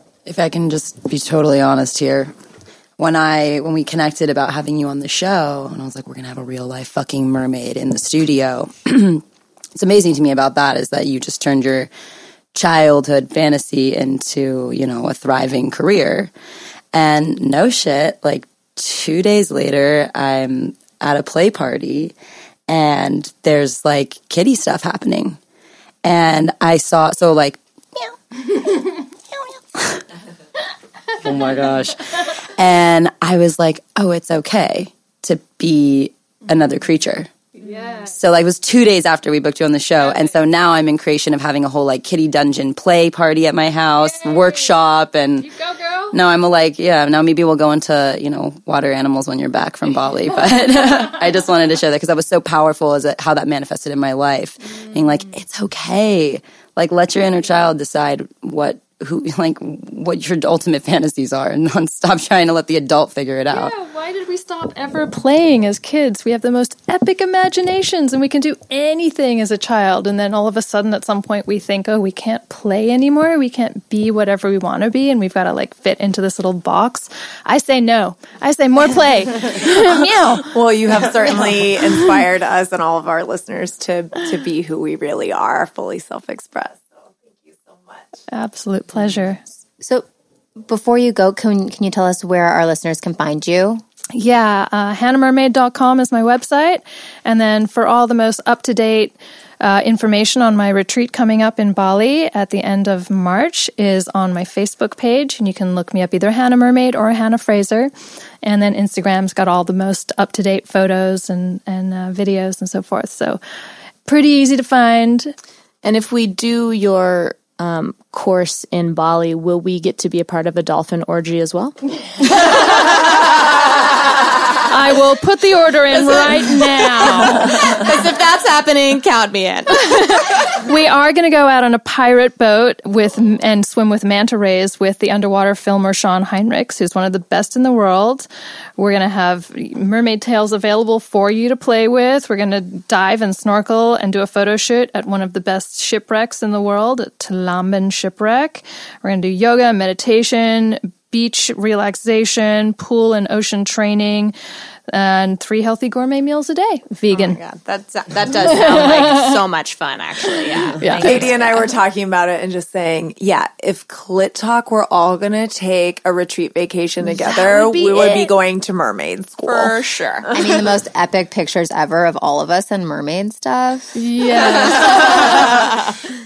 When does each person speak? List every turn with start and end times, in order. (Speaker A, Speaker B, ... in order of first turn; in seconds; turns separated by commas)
Speaker A: 0.2-2.3, Speaker A: 3.0-9.2, Speaker A: 9.7-11.9, Speaker A: 12.5-16.3, Speaker A: 16.9-22.1, Speaker A: 22.7-25.4, Speaker A: 26.0-27.6, Speaker A: 31.2-37.3, Speaker A: 38.0-63.7, Speaker B: 63.5-80.6, Speaker C: 79.6-88.0, Speaker B: 88.3-89.4, Speaker D: 89.8-90.0, Speaker D: 90.6-93.8, Speaker B: 94.1-107.9, Speaker B: 108.4-113.4, Speaker B: 114.0-115.3, Speaker E: 115.8-121.8, Speaker B: 122.3-122.8, Speaker B: 124.7-127.7, Speaker E: 127.2-130.1, Speaker B: 129.7-154.3, Speaker B: 154.9-157.4, Speaker E: 157.1-161.6, Speaker B: 158.3-159.3, Speaker B: 160.8-161.3, Speaker C: 160.9-170.4, Speaker B: 167.2-168.3, Speaker E: 169.4-170.3, Speaker D: 170.3-173.9, Speaker B: 173.9-175.3, Speaker E: 174.8-175.0